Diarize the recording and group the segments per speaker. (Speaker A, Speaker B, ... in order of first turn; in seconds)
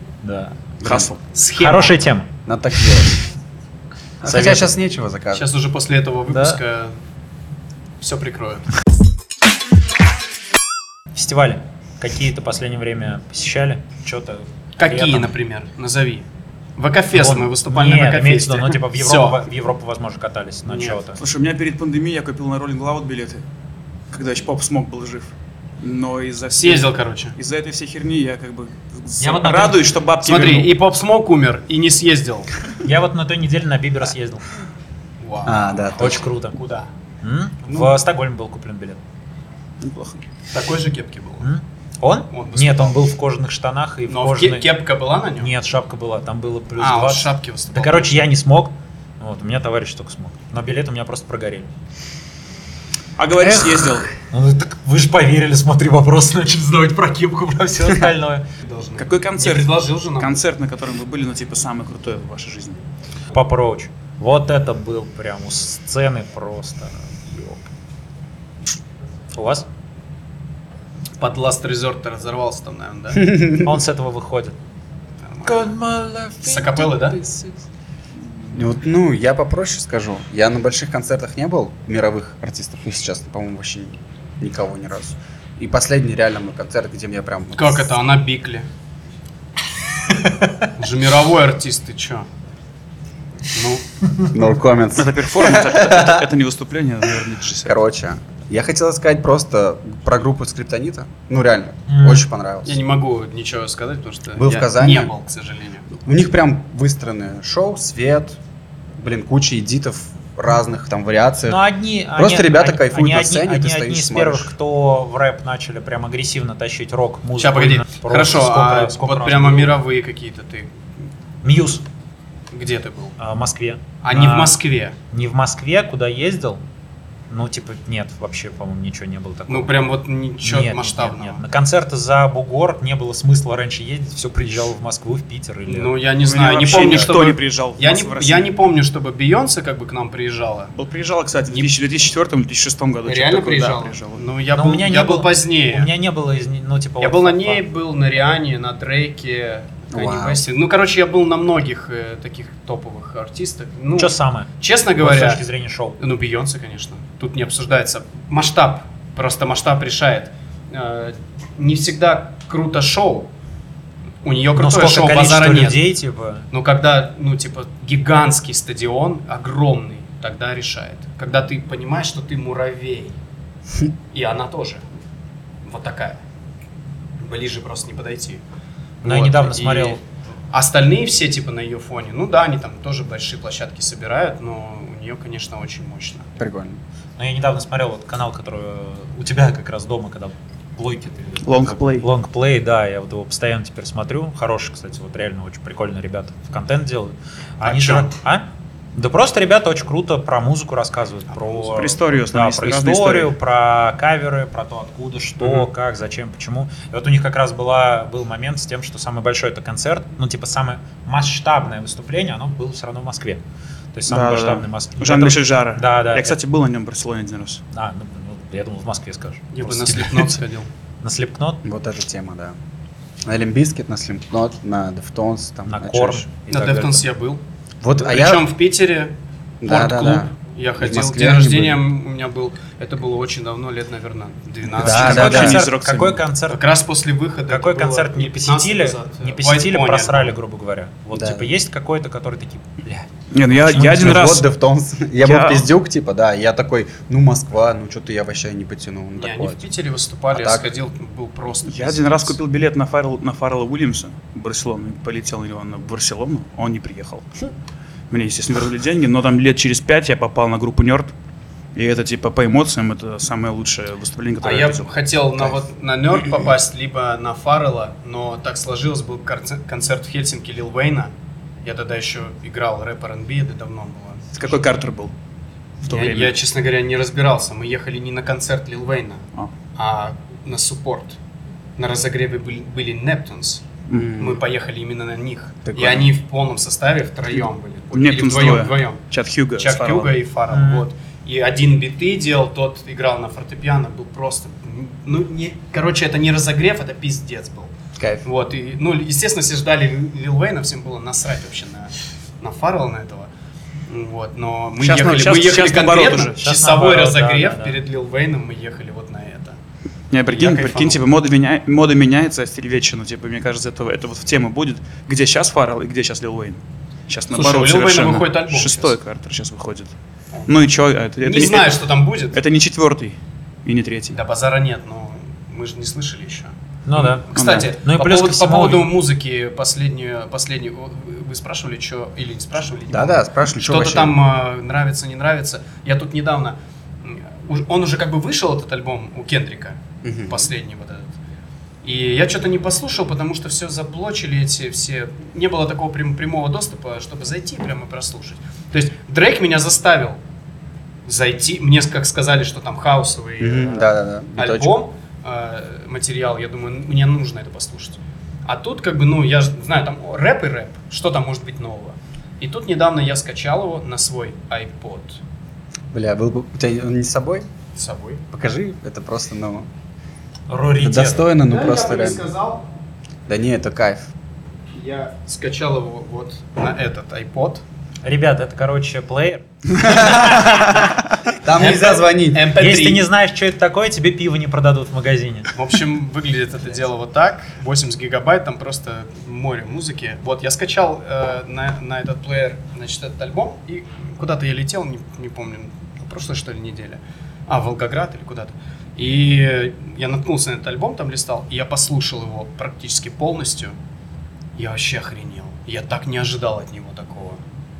Speaker A: 0.2-0.6, 1.6-2.3, 4.2-4.7, 6.3-6.6, 11.1-15.3, 17.1-21.2, 29.2-29.9, 32.8-34.4, 36.0-36.6, 37.2-39.0, 41.4-44.7, 45.4-51.7, 54.3-58.5, 63.3-67.6, 69.3-69.7, 73.5-74.6, 75.5-77.6, 101.9-102.3, 111.5-119.8, 121.4-121.8, 123.2-124.6, 125.1-126.6, 127.3-129.9, 130.4-135.9, 136.6-137.1, 144.5-147.6, 154.0-156.0, 164.6-166.5, 179.0-180.0, 187.2-213.4, 213.9-216.4, 217.7-220.4, 221.0-221.6, 225.7-227.1, 234.8-236.6, 237.5-244.4, 290.5-290.9, 306.4-307.8, 326.9-328.9, 370.5-371.3, 378.0-380.9, 382.6-385.5
Speaker B: 0.8-1.2, 21.1-23.4, 24.1-30.7, 39.8-40.2, 53.2-54.1, 59.0-62.8, 94.9-97.8, 136.2-138.5, 140.7-144.2, 191.4-192.1, 201.7-203.3, 214.1-217.6, 234.8-236.2, 243.3-244.5, 245.2-245.7, 251.7-257.3, 258.1-261.1, 261.8-264.9, 274.3-275.1, 275.8-276.3, 283.9-284.2, 287.9-290.1, 304.8-306.4, 310.1-319.9, 320.5-321.8, 322.3-324.2, 327.4-327.6
Speaker C: 0.8-1.1, 2.5-3.2, 4.2-5.5, 35.4-36.3, 73.2-73.7, 78.5-87.9, 94.3-96.3, 97.7-102.8, 104.4-105.1, 106.0-108.4, 109.0-111.6, 112.1-114.5, 149.9-150.4, 186.4-186.8, 221.6-222.6, 223.3-226.3, 227.8-228.5, 229.6-231.8, 234.8-235.6, 241.1-241.5, 243.9-249.7, 250.3-250.7, 283.9-284.4, 285.7-286.1, 298.0-298.2, 332.9-334.2, 340.0-340.5, 353.4-354.8, 365.9-367.4, 368.3-369.7, 370.8-372.3, 373.3-374.1, 379.8-380.6, 381.4-382.5
Speaker D: 1.3-2.0, 5.3-6.9, 8.0-8.7, 14.8-19.4, 20.7-21.0, 26.5-27.4, 30.2-32.5, 35.2-35.6, 36.5-36.9, 40.5-41.5, 42.3-43.0, 44.1-45.5, 46.8-48.2, 58.6-60.4, 71.2-73.3, 75.2-75.7, 76.4-77.2, 87.6-88.7, 90.8-92.3, 93.5-93.8, 102.6-105.9, 117.4-120.7, 122.5-123.1, 124.0-124.9, 129.5-131.4, 135.7-140.7, 143.1-145.9, 147.0-155.4, 156.0-163.3, 164.2-165.8, 166.5-173.2, 174.1-174.8, 175.6-176.2, 177.2-178.4, 179.0-186.3, 197.6-198.1, 219.5-220.7, 226.5-227.4, 227.9-235.6, 236.5-240.3, 249.2-252.4, 264.4-271.1, 271.6-274.3, 275.9-279.2, 279.8-281.2, 281.8-283.6, 284.2-289.0, 289.6-297.7, 298.2-303.3, 303.9-309.6, 310.3-311.0, 317.3-318.9, 321.2-322.4, 324.1-341.1, 341.8-350.2, 351.1-365.2, 367.8-368.2, 371.4-372.7, 374.8-377.6, 381.6-383.1, 385.6-403.8, 404.6-407.4